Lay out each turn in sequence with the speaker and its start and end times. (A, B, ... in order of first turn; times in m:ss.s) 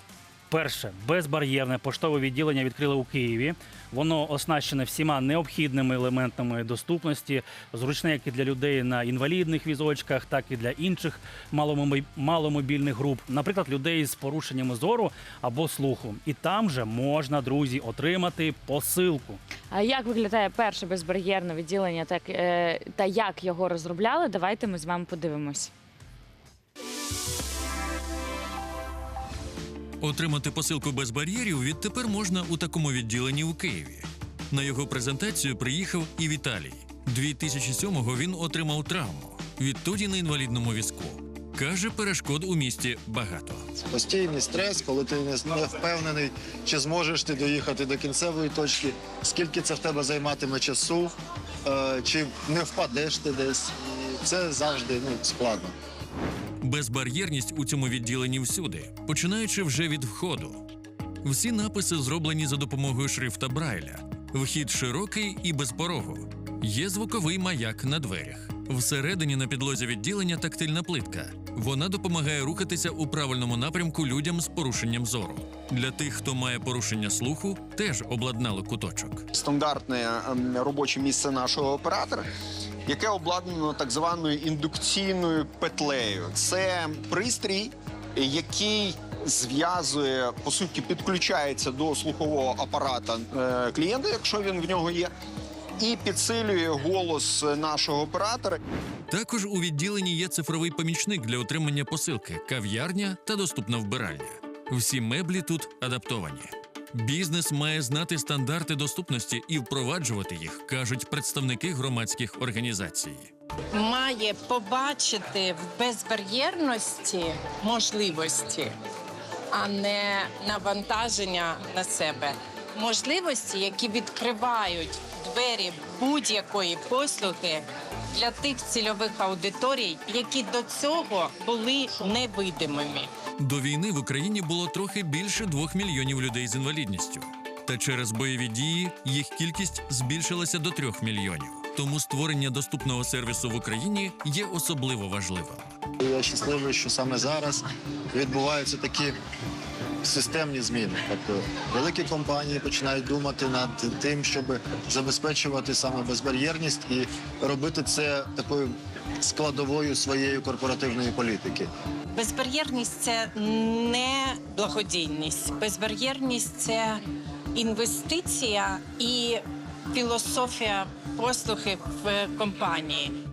0:00.5-0:19.4 A
0:19.7-0:25.7 B
0:30.0-0:43.6 C
0:43.9-0:51.1 D
0:51.7-0:55.7 D
0:56.6-1:00.6 C
1:01.2-1:19.2 C
1:19.3-1:22.3 E
1:22.8-1:35.1 E
1:35.8-1:38.6 E
1:39.1-1:53.3 C
1:53.7-1:58.8 F
1:59.5-2:13.1 F
2:13.4-2:25.8 C
2:26.0-2:29.2 D
2:30.0-2:41.7 D
2:42.2-2:47.0 F
2:47.5-2:53.1 F